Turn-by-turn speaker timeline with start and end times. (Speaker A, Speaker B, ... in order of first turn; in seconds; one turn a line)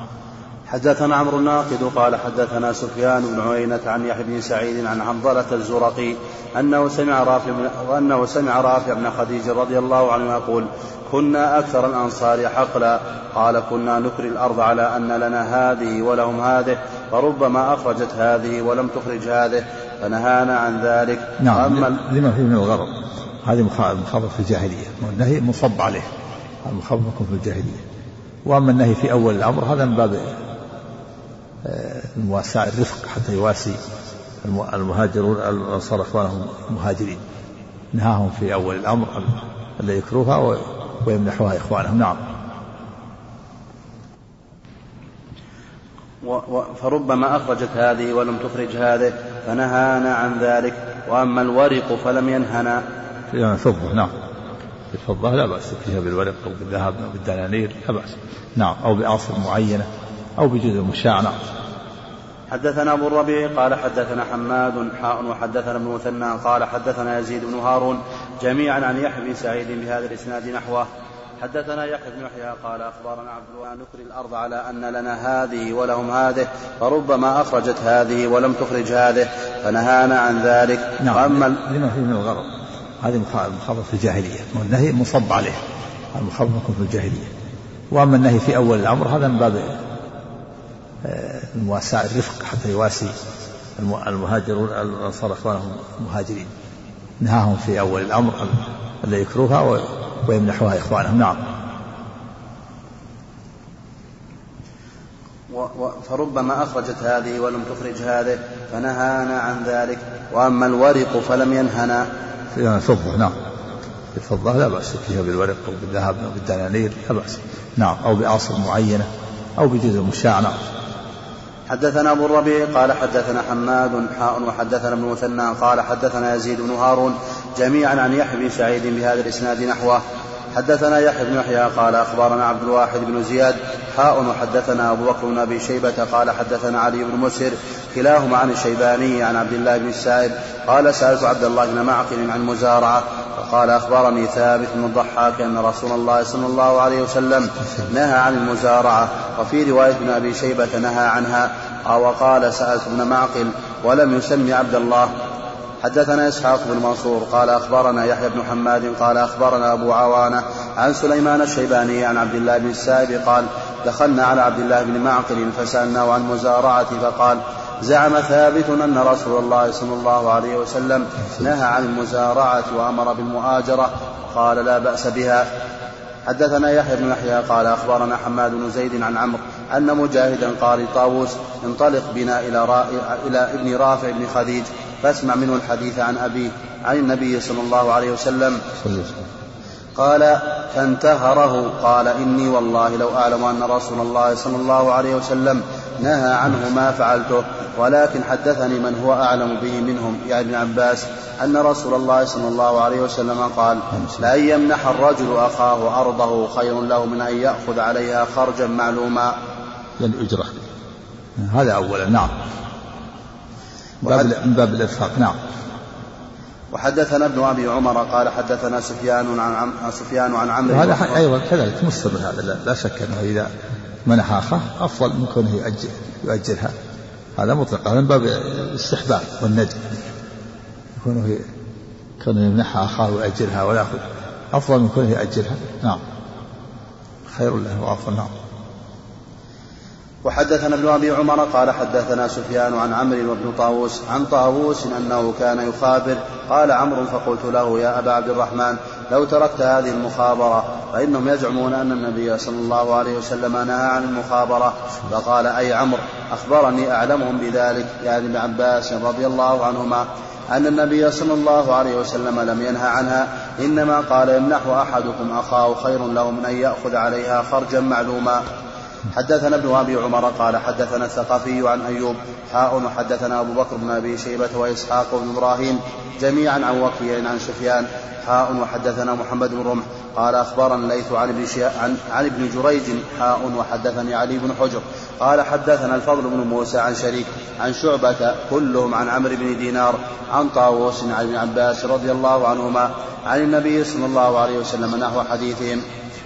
Speaker A: 0.7-21.9
Speaker B: 21.4-26.1
Speaker B: 26.6-27.8
Speaker B: 28.4-30.3
Speaker B: 31.6-33.8
Speaker B: 34.4-37.2
Speaker B: 37.9-42.2
Speaker A: 46.2-52.8
Speaker B: 53.3-54.1
Speaker B: 54.9-59.9
Speaker B: 60.4-61.4
Speaker A: 62.5-70.9
Speaker A: 71.4-81.5
Speaker B: 81.0-85.6
Speaker B: 86.1-87.3
Speaker B: 87.9-89.8
Speaker B: 91.0-93.1
Speaker B: 93.8-96.5
Speaker B: 97.2-101.4
Speaker A: 105.5-112.1
Speaker B: 112.5-113.3
Speaker B: 114.1-120.6
Speaker A: 121.7-130.0
Speaker A: 130.5-155.1
Speaker A: 155.8-175.5
Speaker A: 176.2-188.6
Speaker B: 188.8-189.2
Speaker A: 189.9-209.3
Speaker B: 210.0-210.6
Speaker B: 211.4-212.3
Speaker A: 214.0-214.3
Speaker B: 214.0-215.4
Speaker A: 216.7-221.2
Speaker B: 220.7-223.5
Speaker B: 224.1-226.7
Speaker B: 227.4-229.9
Speaker B: 230.9-231.4
Speaker B: 232.2-236.0
Speaker B: 237.3-238.3
Speaker A: 240.2-268.4
Speaker A: 269.1-295.8